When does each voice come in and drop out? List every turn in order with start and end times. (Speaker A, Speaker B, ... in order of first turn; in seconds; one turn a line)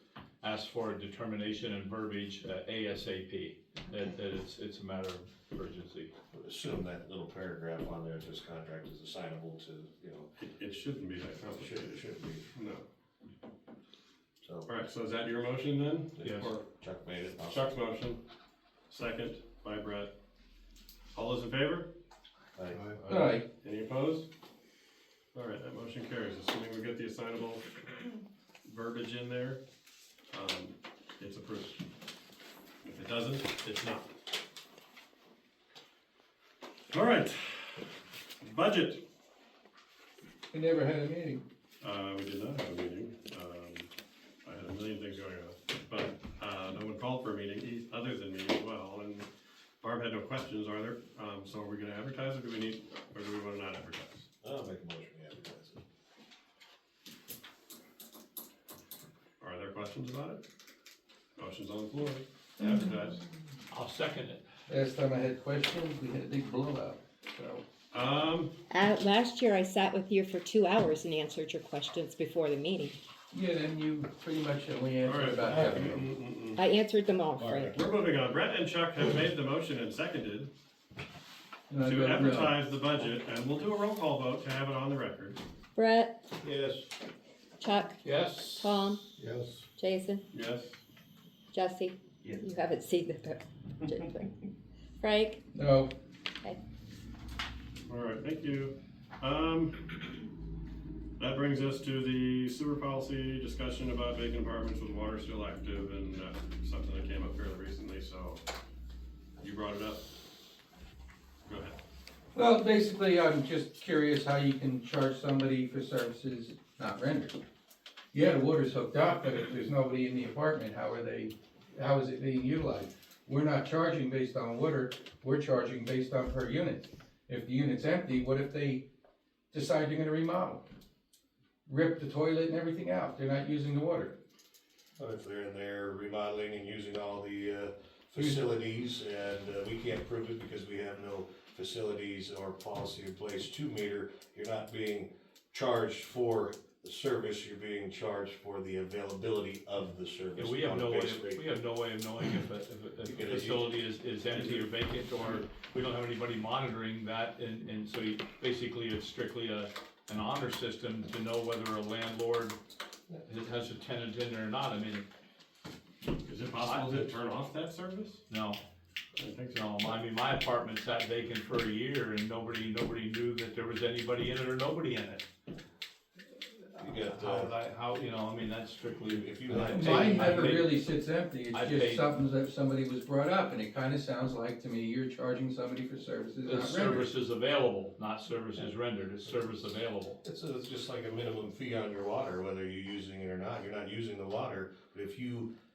Speaker A: 0.4-6.1
Speaker B: 6.3-10.3
Speaker C: 10.4-12.8
Speaker B: 11.5-12.5
Speaker B: 14.4-14.7
Speaker C: 14.7-16.6
Speaker B: 16.2-17.7
Speaker A: 16.2-16.5
Speaker C: 17.4-18.2
Speaker C: 18.9-20.1
Speaker C: 21.1-21.9
Speaker B: 22.5-22.9
Speaker C: 23.0-24.3
Speaker D: 23.1-23.4
Speaker C: 25.3-27.7
Speaker C: 28.6-29.6
Speaker C: 30.3-31.8
Speaker C: 32.8-34.1
Speaker C: 36.9-39.0
Speaker D: 40.5-41.4
Speaker C: 41.8-43.9
Speaker C: 44.4-49.3
Speaker C: 49.8-54.2
Speaker B: 54.4-55.8
Speaker C: 59.4-60.4
Speaker C: 61.4-63.2
Speaker A: 63.7-64.4
Speaker D: 64.7-67.6
Speaker C: 67.9-68.5
Speaker E: 68.7-73.0
Speaker D: 73.3-76.0
Speaker C: 75.0-76.6
Speaker B: 75.5-76.0
Speaker E: 76.6-77.7
Speaker B: 77.4-77.8
Speaker C: 77.7-80.5
Speaker D: 81.7-82.6
Speaker C: 81.8-85.4
Speaker E: 85.8-86.2
Speaker B: 86.4-86.9
Speaker E: 87.6-88.0
Speaker A: 88.0-88.8
Speaker E: 88.6-89.0
Speaker B: 89.2-89.6
Speaker E: 89.8-90.2
Speaker C: 90.3-90.8
Speaker E: 91.5-94.3
Speaker E: 95.0-95.4
Speaker D: 95.5-95.9
Speaker C: 97.9-99.9
Speaker C: 101.2-108.4
Speaker C: 109.4-110.0
Speaker C: 111.5-111.8
Speaker D: 112.3-117.3
Speaker D: 118.1-128.8
Speaker D: 129.5-130.6
Speaker D: 131.7-134.2
Speaker B: 135.0-151.5
Speaker A: 150.3-162.6
Speaker B: 153.0-153.8
Speaker B: 154.3-154.6
Speaker A: 163.2-165.0
Speaker C: 166.2-168.2
Speaker A: 166.6-167.1
Speaker A: 168.3-168.6
Speaker C: 169.2-169.9
Speaker A: 169.5-175.2
Speaker A: 176.7-180.8
Speaker B: 176.8-177.5
Speaker B: 179.1-180.6
Speaker D: 179.6-187.1
Speaker A: 181.5-182.0
Speaker A: 186.4-190.2
Speaker B: 190.2-195.5